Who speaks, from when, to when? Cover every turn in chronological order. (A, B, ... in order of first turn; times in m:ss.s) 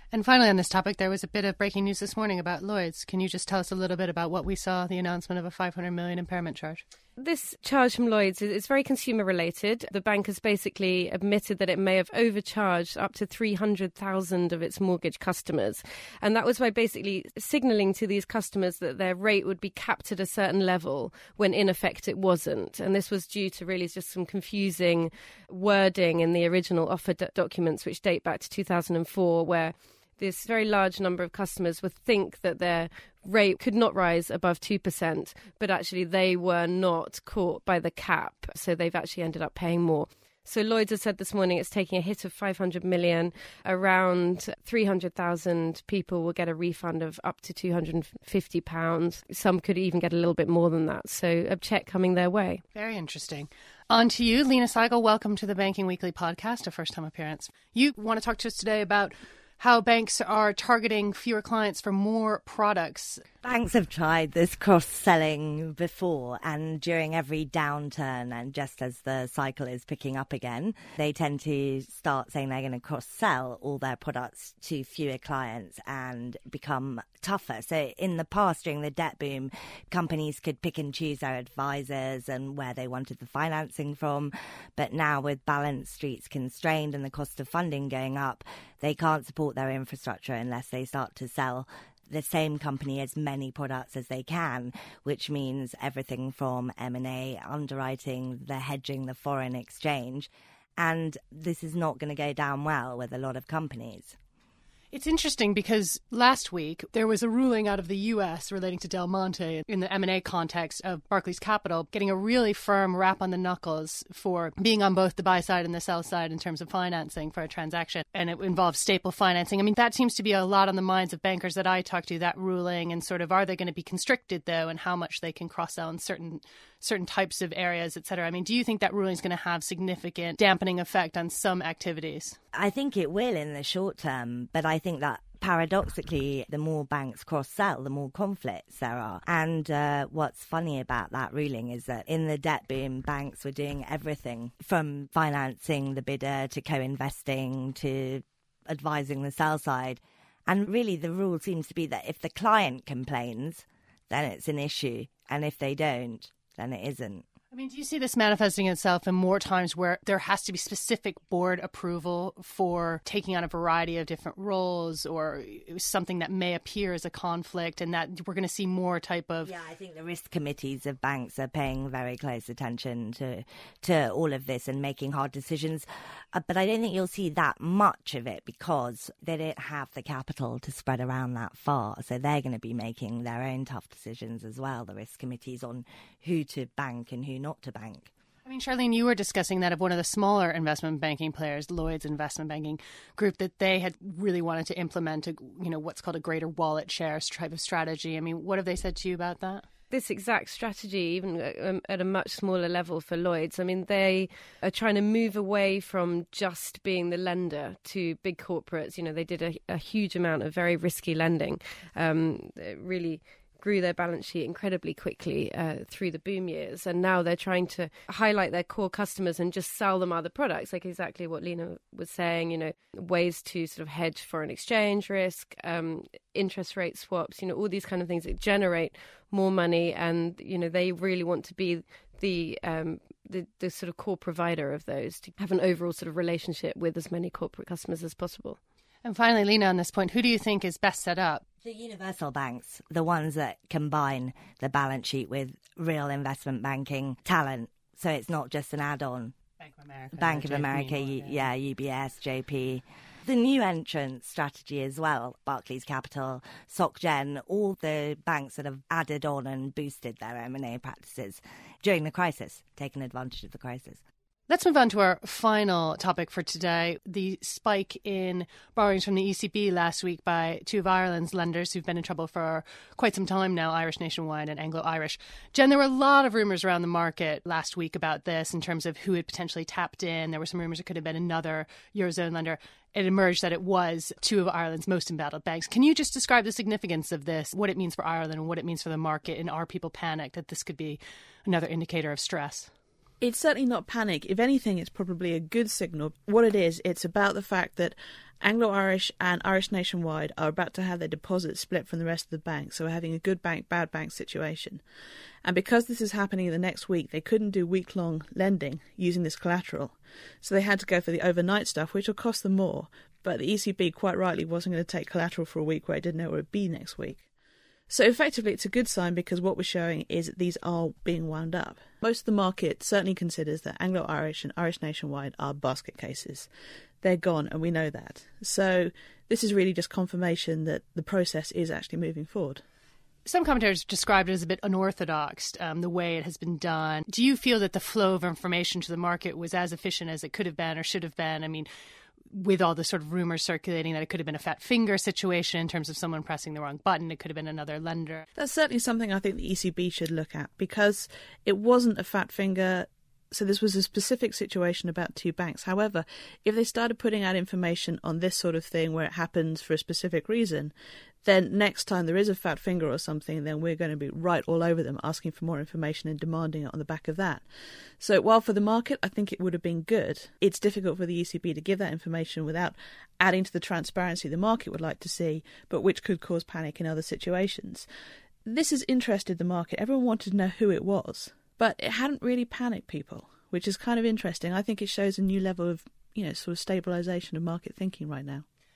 0:00.1-0:06.8 A
0:07.2-0:52.6 B
0:52.7-1:03.2 A
1:03.4-1:44.2 C
1:44.9-2:12.4 A
2:12.5-2:37.2 C
2:37.5-2:49.5 A
2:49.4-3:08.1 C
3:08.4-3:19.6 A
3:19.9-3:58.6 B
3:59.0-4:01.4 A
4:01.6-4:09.3 C
4:09.6-4:11.5 A
4:10.1-4:24.0 C
4:24.5-4:52.7 A
4:53.2-5:04.8 D
5:05.4-5:17.2 D
5:17.9-5:26.5 D
5:27.0-5:32.6 D
5:33.2-5:41.7 A
5:42.3-5:48.2 A
5:48.4-6:00.7 D
6:01.2-6:07.4 D
6:08.0-6:17.9 D
6:18.4-6:28.4 D